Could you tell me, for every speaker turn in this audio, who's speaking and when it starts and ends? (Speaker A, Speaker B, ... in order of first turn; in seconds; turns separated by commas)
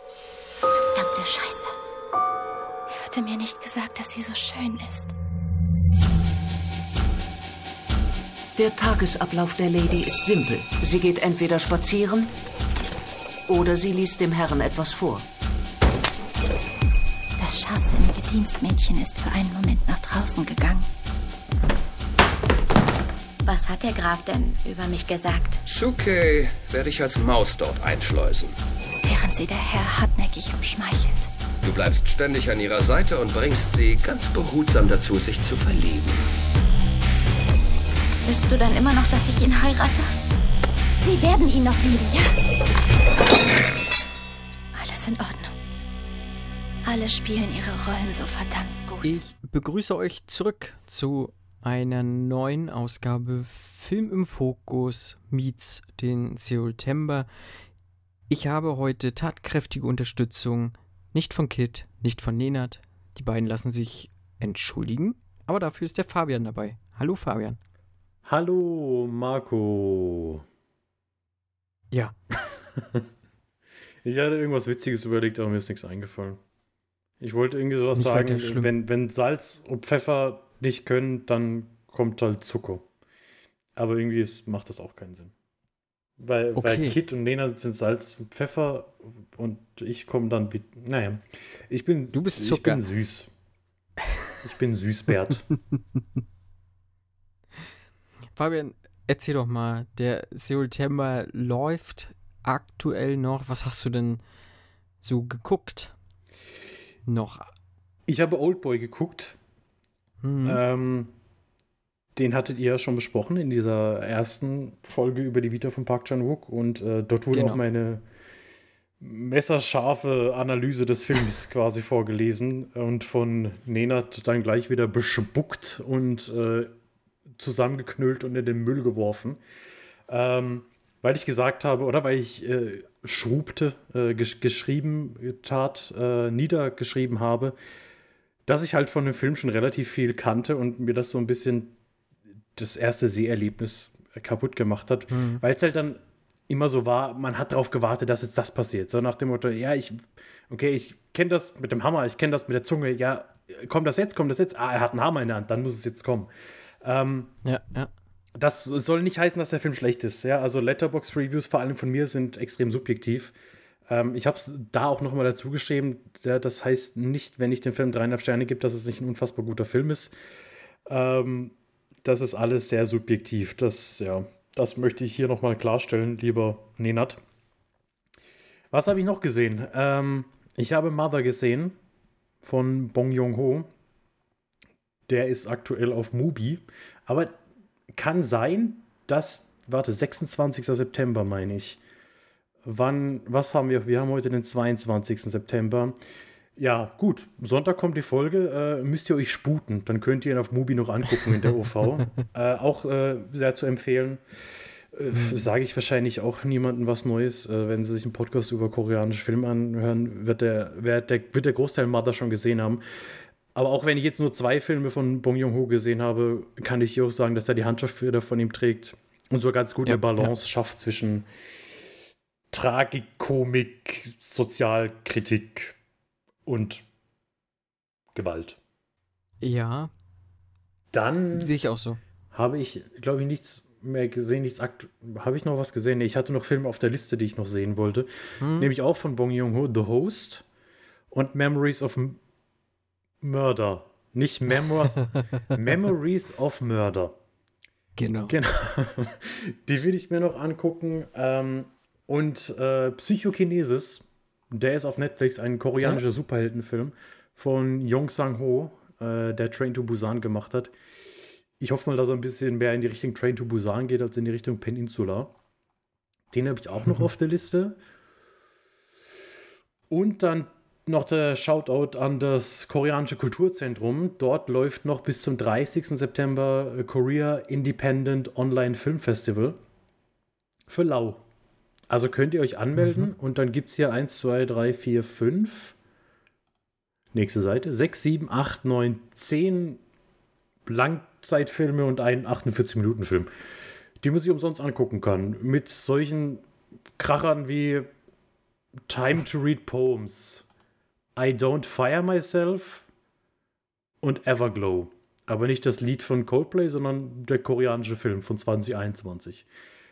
Speaker A: 0.8-1.8, Speaker A: 2.9-5.1, Speaker B: 8.6-12.3, Speaker B: 13.5-15.2, Speaker A: 17.4-20.9, Speaker A: 23.4-25.6, Speaker C: 25.6-28.6, Speaker A: 29.0-31.3, Speaker C: 31.6-36.3, Speaker A: 38.2-40.1, Speaker A: 41.0-42.4, Speaker A: 44.7-45.5, Speaker A: 46.9-49.2, Speaker D: 49.0-57.3, Speaker D: 58.3-67.6, Speaker E: 68.3-70.4, Speaker E: 72.8-73.0, Speaker E: 74.0-76.4, Speaker E: 77.2-82.8, Speaker D: 78.0-78.7, Speaker E: 83.8-85.3, Speaker E: 86.2-93.3, Speaker D: 86.5-87.0, Speaker D: 92.1-92.8, Speaker E: 94.4-95.5, Speaker D: 98.4-104.2, Speaker D: 105.0-105.9, Speaker D: 107.1-107.5, Speaker E: 108.1-109.4, Speaker D: 110.2-110.6, Speaker E: 110.5-111.1, Speaker E: 112.2-118.0, Speaker D: 117.3-117.6, Speaker E: 119.0-126.7, Speaker E: 127.4-129.4, Speaker E: 130.1-137.6, Speaker E: 138.5-141.7, Speaker E: 142.6-156.3, Speaker D: 145.1-145.4, Speaker E: 156.8-157.3, Speaker D: 157.4-157.9, Speaker E: 158.4-163.3, Speaker E: 163.9-170.1, Speaker E: 170.9-177.2, Speaker E: 178.7-181.8, Speaker E: 182.4-183.7, Speaker E: 185.1-187.4, Speaker E: 187.9-191.8, Speaker E: 192.7-196.0, Speaker E: 196.6-204.2, Speaker E: 204.9-212.8, Speaker D: 205.1-205.4, Speaker E: 213.6-221.3, Speaker D: 219.8-220.3, Speaker E: 222.5-225.8, Speaker E: 226.5-226.8, Speaker E: 228.1-228.6, Speaker D: 229.4-229.9, Speaker E: 230.9-231.5, Speaker D: 231.3-232.0, Speaker E: 232.3-240.4, Speaker D: 238.4-238.7, Speaker E: 241.1-242.2, Speaker E: 243.2-247.2, Speaker D: 245.0-245.4, Speaker D: 248.0-248.4, Speaker E: 248.3-260.7, Speaker E: 261.6-265.3, Speaker E: 266.3-267.8, Speaker E: 269.9-279.6, Speaker E: 280.7-281.2, Speaker E: 281.9-285.8, Speaker E: 287.1-289.8, Speaker E: 290.7-293.3, Speaker E: 294.0-296.4, Speaker E: 297.0-297.9, Speaker E: 298.9-300.4, Speaker E: 301.2-302.9, Speaker E: 304.0-309.5